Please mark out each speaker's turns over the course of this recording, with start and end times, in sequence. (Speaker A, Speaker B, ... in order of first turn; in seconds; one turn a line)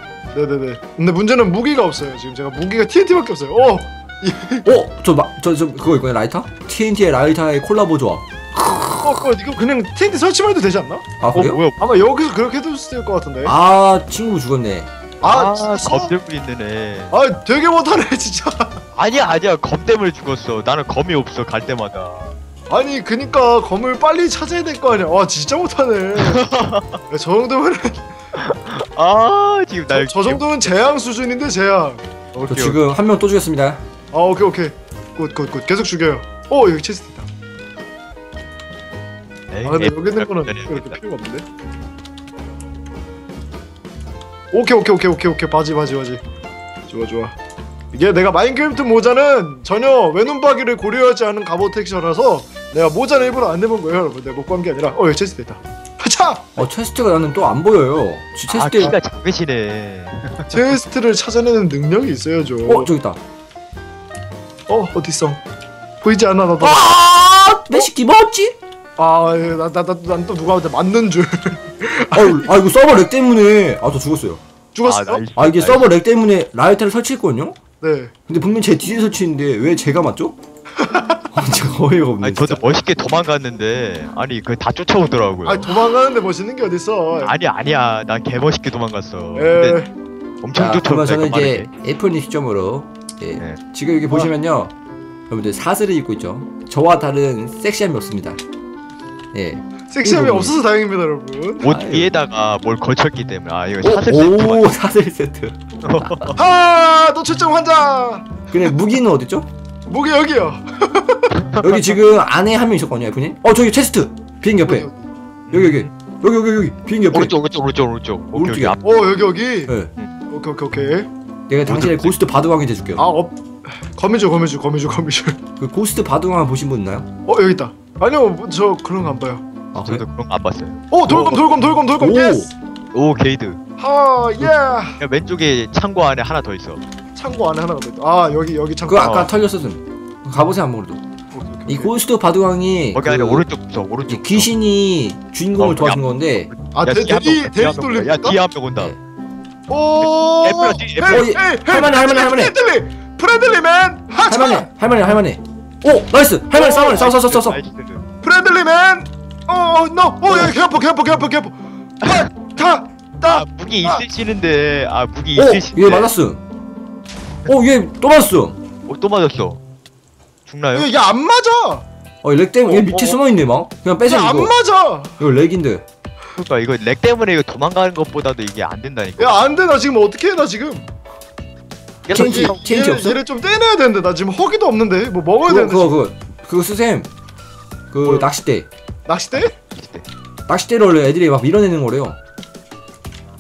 Speaker A: 0.3-4.7
Speaker B: 4.7-9.3
Speaker A: 9.0-13.6
Speaker B: 11.2-11.6
Speaker C: 11.3-11.9
Speaker B: 13.4-14.9
Speaker A: 15.2-16.1
Speaker C: 15.2-17.1
Speaker A: 17.1-18.8
Speaker C: 19.0-22.3
Speaker A: 22.7-26.5
Speaker C: 26.2-27.0
Speaker A: 27.1-28.1
Speaker C: 28.4-30.7
Speaker A: 29.9-32.0
Speaker C: 32.3-32.8
Speaker B: 32.5-33.8
Speaker A: 34.1-37.3
Speaker C: 39.5-41.0
Speaker A: 39.6-41.5
Speaker A: 44.5-46.2
Speaker A: 46.9-47.4
Speaker A: 47.9-56.6
Speaker B: 56.6-59.0
Speaker C: 58.5-60.6
Speaker A: 60.5-62.9
Speaker B: 62.7-63.2
Speaker A: 64.7-65.4
Speaker A: 66.0-66.8
Speaker B: 66.6-68.6
Speaker A: 69.0-72.5
Speaker B: 72.1-74.4
Speaker A: 74.8-75.2
Speaker C: 74.8-75.9
Speaker B: 75.4-77.6
Speaker A: 77.8-78.1
Speaker B: 78.3-80.4
Speaker A: 80.8-81.3
Speaker B: 81.3-82.7
Speaker C: 82.2-85.8
Speaker A: 85.5-87.3
Speaker C: 87.2-89.8
Speaker A: 89.3-89.9
Speaker C: 90.4-91.7
Speaker B: 90.5-94.7
Speaker B: 95.3-98.4
Speaker B: 99.3-100.5
Speaker A: 99.9-101.7
Speaker C: 101.6-104.7
Speaker B: 101.6-102.1
Speaker B: 103.8-106.2
Speaker C: 105.8-106.4
Speaker A: 106.3-108.5
Speaker B: 108.5-109.5
Speaker A: 109.9-111.6
Speaker B: 111.6-114.9
Speaker A: 114.6-115.1
Speaker C: 115.5-115.9
Speaker B: 115.5-117.4
Speaker C: 117.1-118.9
Speaker B: 118.3-118.8
Speaker A: 118.8-119.7
Speaker A: 120.3-121.1
Speaker B: 121.5-123.1
Speaker C: 121.7-122.1
Speaker A: 123.0-125.4
Speaker B: 125.6-127.1
Speaker A: 127.3-129.4
Speaker B: 129.7-130.1
Speaker C: 129.8-131.4
Speaker A: 130.9-132.5
Speaker B: 132.0-132.5
Speaker C: 132.9-133.6
Speaker A: 133.8-135.0
Speaker C: 135.0-136.8
Speaker A: 137.2-139.3
Speaker B: 138.9-141.0
Speaker C: 139.0-139.3
Speaker A: 141.3-141.9
Speaker B: 141.7-143.4
Speaker C: 142.9-144.5
Speaker B: 144.1-146.5
Speaker C: 145.6-148.9
Speaker A: 146.7-148.4
Speaker A: 149.7-154.7
Speaker C: 150.4-151.3
Speaker B: 151.1-152.6
Speaker B: 154.3-157.6
Speaker A: 156.6-157.2
Speaker C: 156.9-158.1
Speaker A: 158.2-164.0
Speaker C: 163.2-166.1
Speaker B: 165.4-166.4
Speaker B: 167.5-168.6
Speaker C: 168.9-169.6
Speaker C: 170.5-170.9
Speaker A: 170.7-171.9
Speaker B: 172.2-174.5
Speaker A: 172.7-173.2
Speaker A: 174.1-175.2
Speaker B: 175.2-175.8
Speaker C: 176.4-179.4
Speaker A: 179.2-180.9
Speaker C: 182.1-182.6
Speaker B: 182.1-183.2
Speaker A: 182.1-186.0
Speaker B: 185.5-187.1
Speaker B: 187.9-188.7
Speaker A: 188.0-188.3
Speaker A: 189.1-189.6
Speaker C: 189.8-190.1
Speaker B: 190.5-192.2